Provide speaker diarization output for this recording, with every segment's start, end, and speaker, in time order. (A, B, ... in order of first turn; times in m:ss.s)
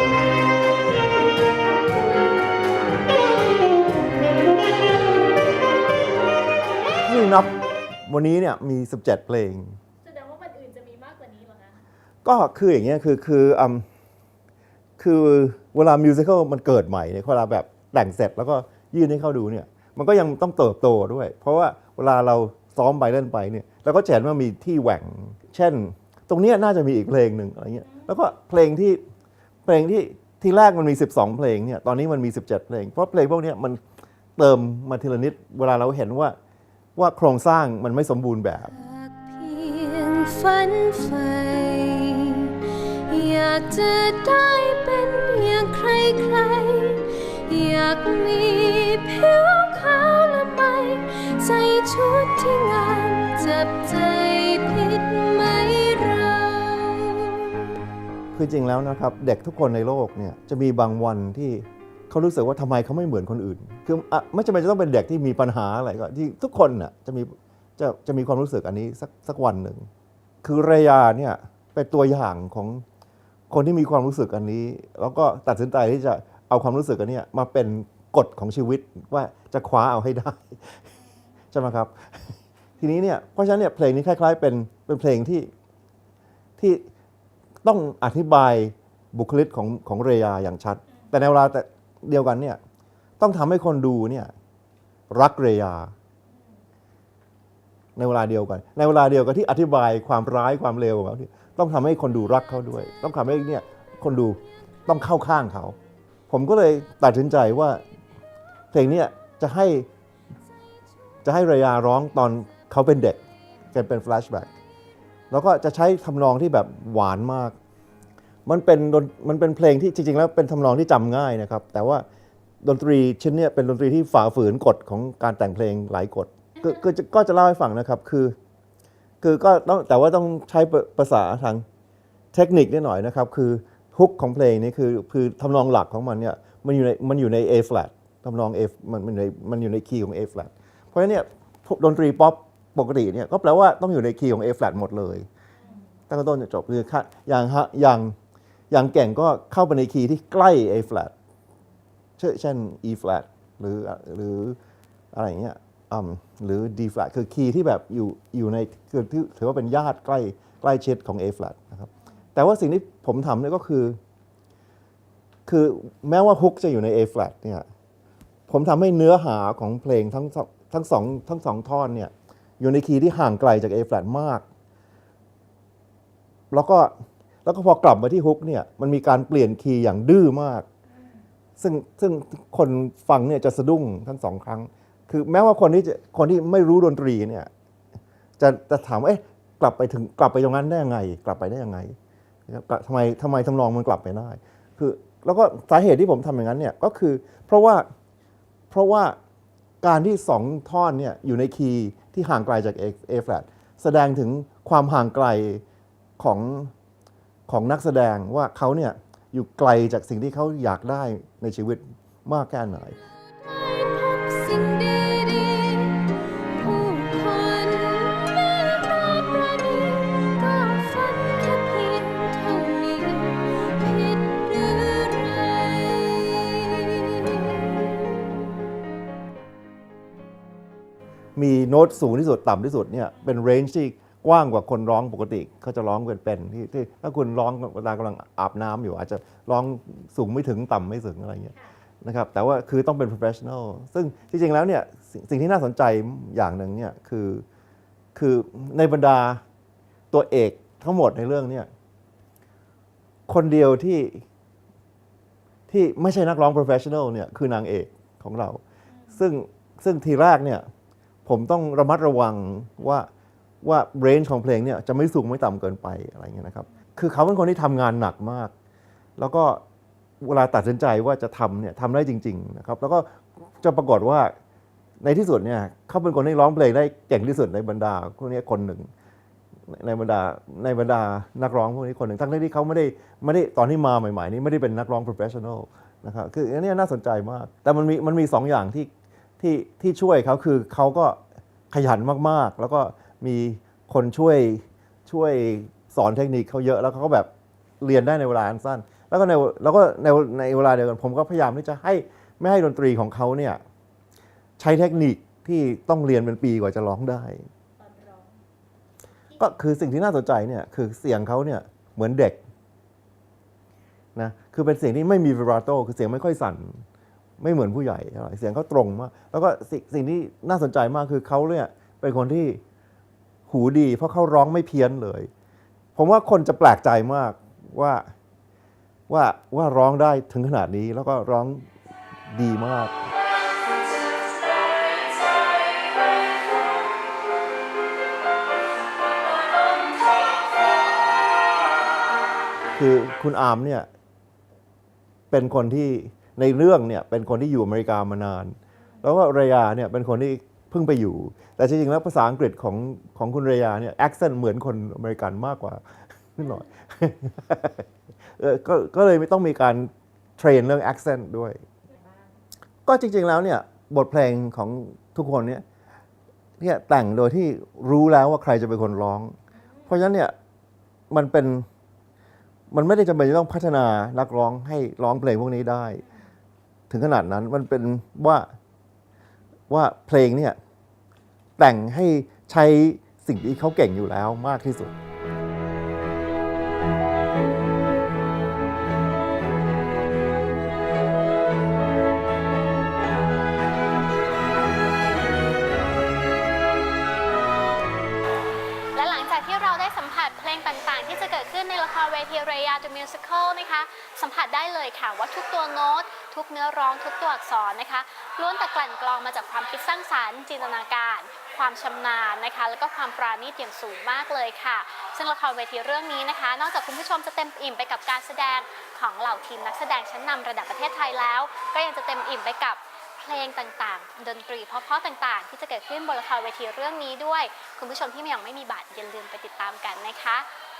0:07.0-0:07.5 A
0:08.1-0:09.8 A
0:10.0-0:11.8 B
0:12.2-0:13.8 A
0:15.0-0:29.0 A
0:29.7-0:33.8 A
0:34.4-0:36.4 A
0:37.0-0:38.7 A
0:38.6-0:57.5 C
0:58.3-1:09.9 A
1:10.4-1:12.8 A
1:13.5-1:20.8 A
1:21.5-1:25.5 A
1:26.6-1:26.8 A
1:27.6-1:32.6 A
1:33.2-1:34.3 A
1:35.1-1:35.9 A
1:36.3-1:36.6 B
1:38.0-1:45.8 A
1:46.3-1:47.8 A
1:48.7-1:49.9 A
1:51.2-1:54.5 A
1:55.3-1:57.6 A
1:58.5-2:02.0 A
2:02.6-2:08.4 A
2:09.2-2:11.6 A
2:12.3-2:25.3 A
2:26.1-2:28.2 A
2:28.7-2:31.1 A
2:32.2-2:34.6 A
2:35.1-2:44.0 A
2:45.5-2:47.7 A
2:48.5-2:54.4 A
2:56.5-2:56.9 A
2:57.4-3:00.7 A
3:01.6-3:07.5 A
3:08.4-3:12.0 A
3:12.5-3:17.8 A
3:18.7-3:19.2 A
3:19.8-3:25.6 A
3:26.2-3:26.7 A
3:27.5-3:33.0 A
3:33.3-3:48.1 C
3:51.4-4:07.4 A
4:08.2-4:09.4 A
4:10.1-4:11.7 A
4:13.3-4:14.2 A
4:15.7-4:18.6 A
4:19.2-4:20.6 A
4:21.2-4:23.1 A
4:23.6-4:28.5 A
4:29.2-4:29.6 A
4:30.2-4:33.1 A
4:33.6-4:34.3 A
4:35.0-4:38.9 A
4:39.7-4:51.2 A
4:51.7-4:57.3 A
4:57.8-5:03.6 A
5:04.6-5:07.5 A
5:07.8-5:08.4 B
5:09.4-5:12.4 A
5:14.2-5:16.8 A
5:17.4-5:22.6 A
5:23.5-5:25.3 A
5:26.0-5:28.1 A
5:29.1-5:31.7 A
5:32.3-5:33.1 A
5:42.8-5:43.9 A
5:45.3-5:55.8 A
5:56.4-6:01.6 A
6:01.9-6:02.3 B
6:02.9-6:05.6 A
6:06.6-6:09.4 A
6:09.6-6:09.9 B
6:09.9-6:10.3 A
6:11.1-6:11.7 A
6:12.7-6:16.0 A
6:16.9-6:18.5 A
6:19.7-6:20.6 A
6:21.6-6:24.9 A
6:39.0-7:10.5 D